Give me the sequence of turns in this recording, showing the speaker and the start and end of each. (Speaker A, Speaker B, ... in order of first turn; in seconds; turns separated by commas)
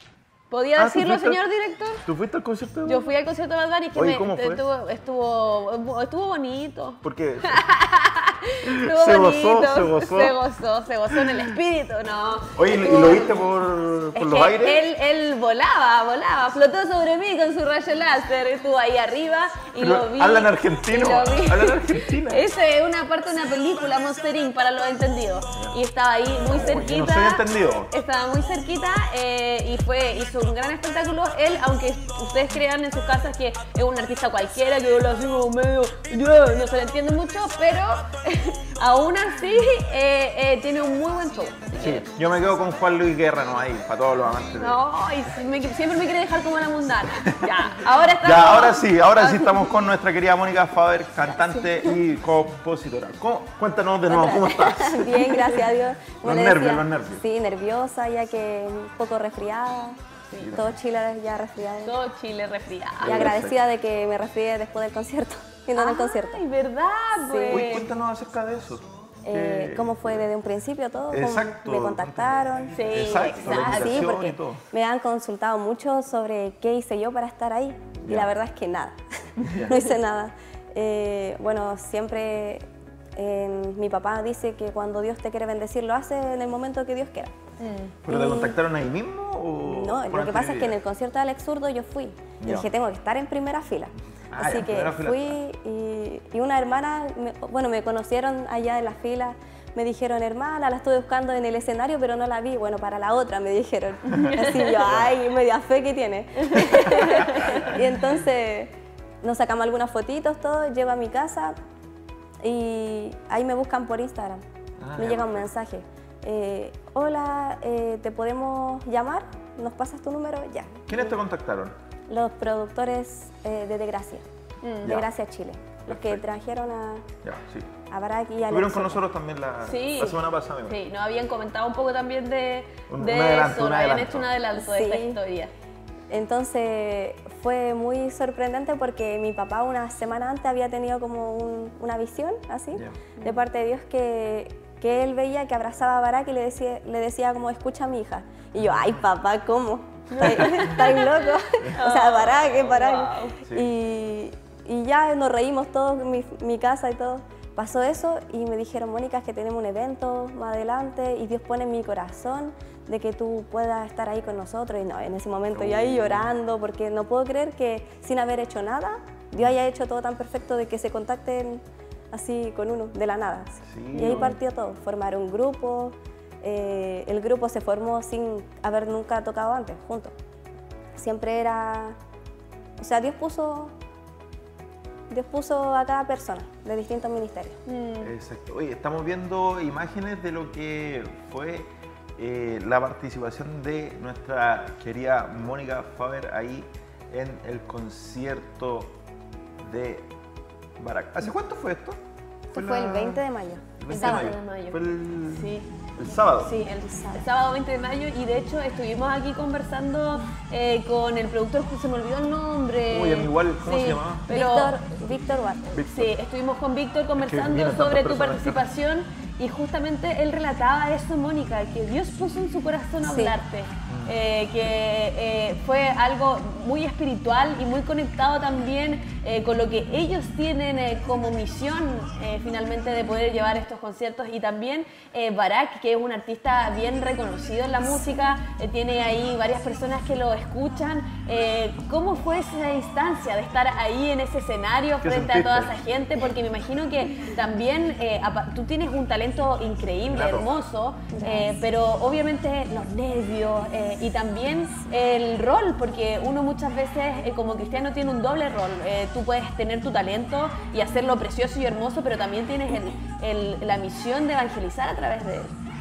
Speaker A: 0.5-2.1, Speaker B: 0.8-1.4, Speaker B: 2.1-3.1, Speaker A: 2.8-13.4, Speaker B: 3.9-4.6, Speaker B: 7.0-7.7, Speaker B: 8.7-10.3, Speaker B: 11.1-11.4, Speaker B: 12.5-14.8, Speaker A: 14.2-42.1, Speaker B: 19.8-22.4, Speaker B: 25.5-25.8, Speaker B: 26.4-27.9, Speaker B: 41.8-44.8, Speaker A: 44.6-49.6, Speaker B: 47.1-47.6, Speaker B: 48.2-55.5, Speaker C: 54.1-60.0, Speaker B: 56.2-57.2, Speaker A: 60.3-60.5, Speaker B: 60.4-60.8, Speaker C: 60.5-61.9, Speaker A: 61.8-63.3, Speaker B: 63.0-63.6, Speaker C: 63.0-66.4, Speaker A: 65.8-67.9, Speaker C: 67.2-67.8, Speaker B: 67.5-70.3, Speaker C: 69.2-87.3, Speaker B: 71.1-74.7, Speaker A: 72.8-73.9, Speaker B: 78.0-78.3, Speaker B: 79.4-79.8, Speaker A: 87.6-88.0, Speaker B: 88.0-90.8, Speaker C: 88.1-88.6, Speaker C: 89.6-111.6, Speaker B: 92.4-92.7, Speaker B: 94.3-95.4, Speaker A: 104.1-104.8, Speaker B: 104.8-105.1, Speaker A: 106.5-107.7, Speaker C: 112.4-114.4, Speaker B: 114.8-115.5, Speaker C: 115.0-121.1, Speaker B: 120.9-121.7, Speaker C: 122.1-124.3, Speaker A: 124.6-125.0, Speaker C: 124.8-127.1, Speaker B: 125.9-126.2, Speaker B: 127.2-127.7, Speaker C: 127.9-129.0, Speaker B: 128.5-130.8, Speaker A: 129.6-135.5, Speaker B: 132.9-134.3, Speaker C: 134.5-135.2, Speaker C: 136.1-180.2, Speaker B: 142.7-143.0, Speaker A: 150.1-153.4, Speaker B: 150.3-150.7, Speaker B: 151.6-152.2, Speaker B: 165.5-166.3, Speaker B: 173.7-174.3, Speaker C: 181.0-182.0, Speaker C: 182.8-183.7, Speaker C: 185.1-187.6, Speaker A: 187.7-188.1, Speaker B: 188.0-199.0, Speaker B: 199.6-200.1, Speaker B: 200.8-202.0, Speaker C: 202.5-204.3, Speaker B: 202.5-203.2, Speaker B: 203.8-206.5, Speaker A: 203.9-205.7, Speaker A: 206.4-214.8, Speaker C: 206.8-207.2, Speaker B: 212.9-214.3, Speaker C: 214.3-215.7, Speaker B: 215.7-216.1, Speaker A: 215.8-265.5, Speaker B: 217.2-218.7, Speaker C: 223.0-223.3, Speaker B: 223.9-224.2, Speaker B: 245.0-245.7, Speaker B: 250.0-250.6, Speaker C: 251.1-251.5